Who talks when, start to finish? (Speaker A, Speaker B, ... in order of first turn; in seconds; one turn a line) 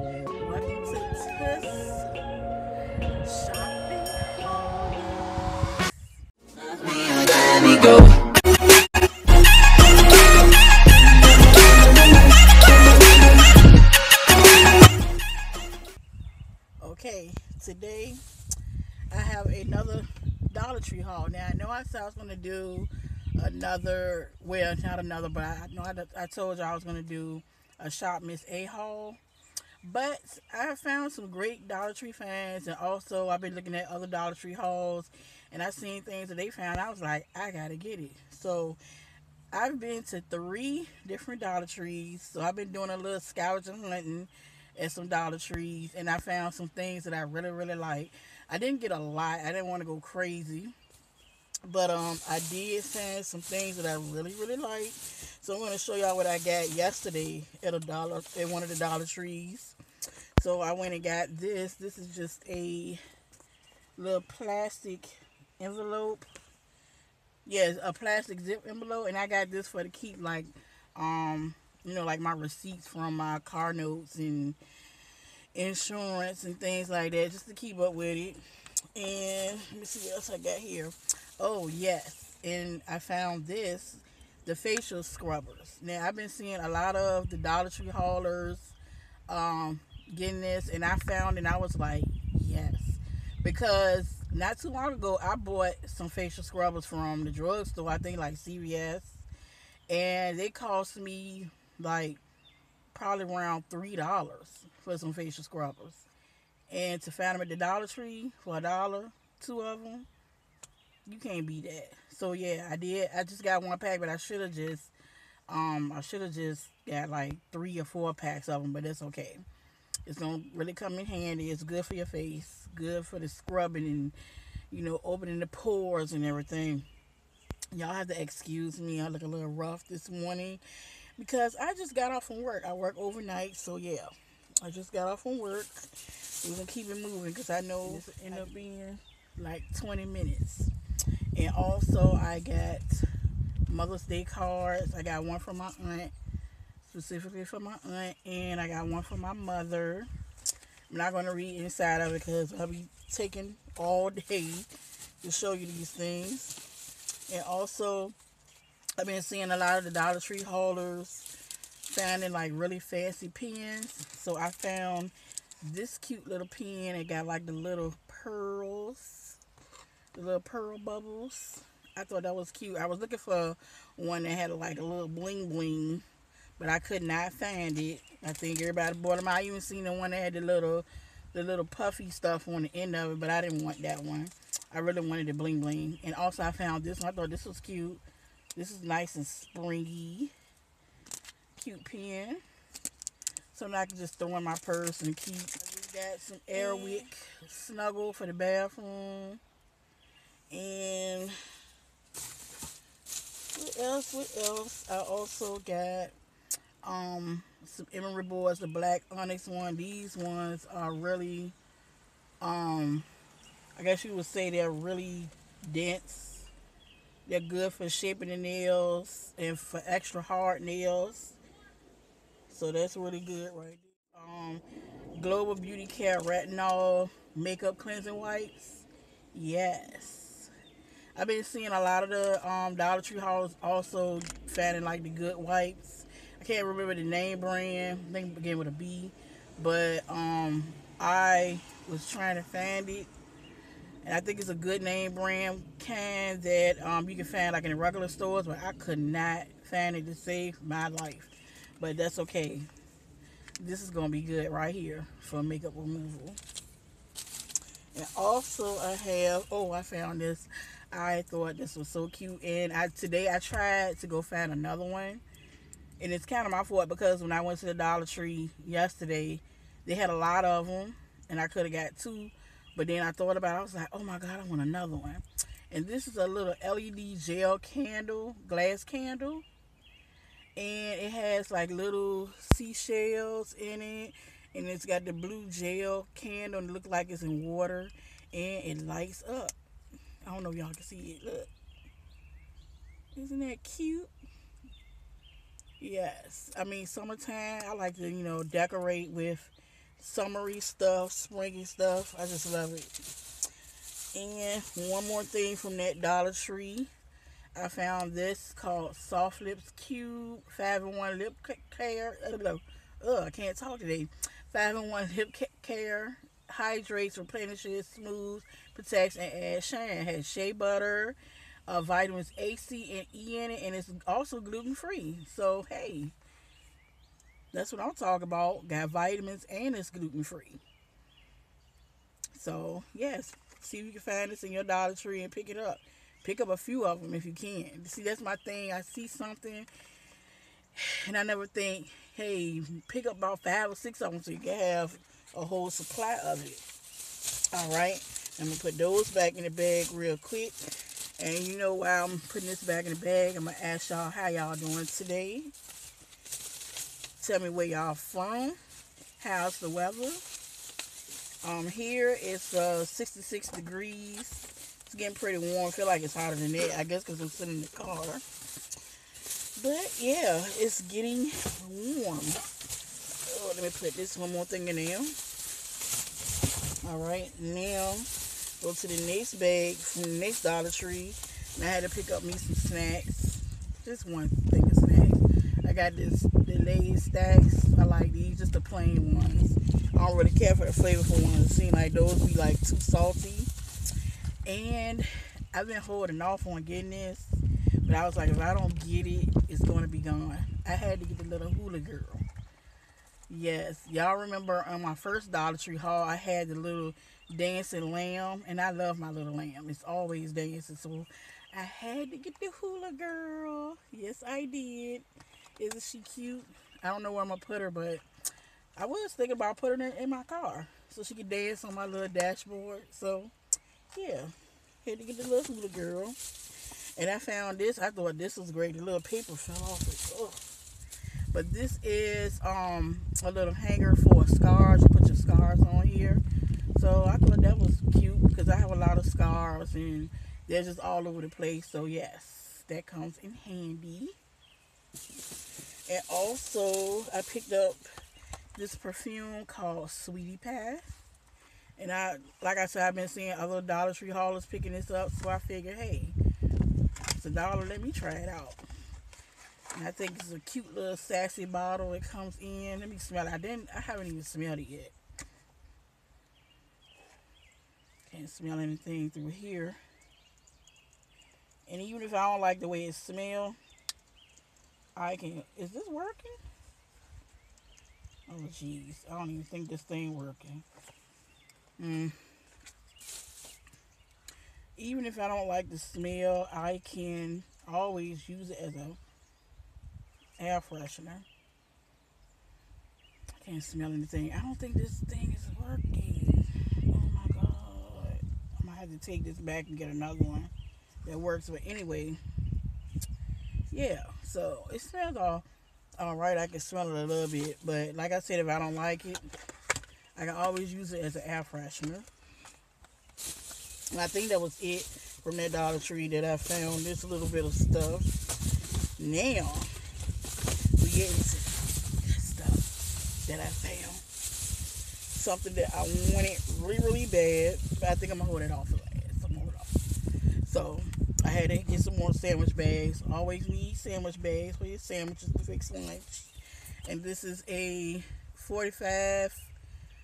Speaker A: 0.4-2.1
Speaker A: 3.2-6.1
Speaker A: 6.8-8.1
Speaker A: 16.8-18.2
Speaker A: 19.1-29.2
Speaker A: 29.8-38.8
Speaker A: 39.5-50.7
Speaker A: 51.7-59.8
Speaker A: 60.4-63.0
Speaker A: 64.0-66.3
Speaker A: 67.5-74.6
Speaker A: 75.5-78.4
Speaker A: 78.9-88.8
Speaker A: 89.3-99.2
Speaker A: 99.9-102.2
Speaker A: 102.9-106.1
Speaker A: 106.7-110.1
Speaker A: 111.1-114.9
Speaker A: 115.5-119.4
Speaker A: 120.1-124.2
Speaker A: 124.7-126.9
Speaker A: 127.7-130.6
Speaker A: 131.2-140.7
Speaker A: 141.3-143.1
Speaker A: 143.7-146.1
Speaker A: 146.8-150.1
Speaker A: 150.9-154.7
Speaker A: 155.2-156.6
Speaker A: 157.3-158.2
Speaker A: 159.0-161.3
Speaker A: 161.9-169.4
Speaker A: 170.1-176.1
Speaker A: 176.6-188.0
Speaker A: 188.6-190.3
Speaker A: 191.6-192.4
Speaker A: 193.5-199.4
Speaker A: 200.5-201.4
Speaker A: 203.6-206.2
Speaker A: 206.8-211.6
Speaker A: 212.4-213.1
Speaker A: 213.8-216.5
Speaker A: 217.3-221.4
Speaker A: 222.5-224.6
Speaker A: 225.2-230.5
Speaker A: 231.2-243.1
Speaker A: 244.0-252.7
Speaker A: 253.6-256.4
Speaker A: 257.9-265.2
Speaker A: 266.0-279.4
Speaker A: 280.6-289.6
Speaker A: 290.2-291.5
Speaker A: 293.1-294.1
Speaker A: 295.8-303.1
Speaker A: 304.1-306.9
Speaker A: 307.6-326.1
Speaker A: 327.5-330.6
Speaker A: 332.3-339.7
Speaker A: 340.8-346.6
Speaker A: 347.5-355.5
Speaker A: 357.2-358.6
Speaker A: 359.2-360.2
Speaker A: 361.4-368.2
Speaker A: 369.6-372.4
Speaker A: 373.2-375.2
Speaker A: 376.8-393.5
Speaker A: 394.5-402.2
Speaker A: 403.3-415.1
Speaker A: 415.6-418.0
Speaker A: 418.8-423.3
Speaker A: 423.9-424.3
Speaker A: 424.8-426.2
Speaker A: 427.0-430.6
Speaker A: 431.3-436.2
Speaker A: 436.8-444.1
Speaker A: 445.9-447.9
Speaker A: 448.6-450.9
Speaker A: 451.8-456.2
Speaker A: 457.1-458.6
Speaker A: 459.7-464.9
Speaker A: 468.1-469.8
Speaker A: 471.7-473.6
Speaker A: 475.0-476.4
Speaker A: 478.3-480.6
Speaker A: 481.8-482.2
Speaker A: 484.8-489.0
Speaker A: 490.4-491.3
Speaker A: 493.4-500.5
Speaker A: 501.1-502.2
Speaker A: 503.7-505.4
Speaker A: 506.0-509.2
Speaker A: 510.2-512.1
Speaker A: 513.9-518.1
Speaker A: 519.0-519.7
Speaker A: 520.8-524.0
Speaker A: 525.1-529.7
Speaker A: 530.4-536.2
Speaker A: 536.9-539.5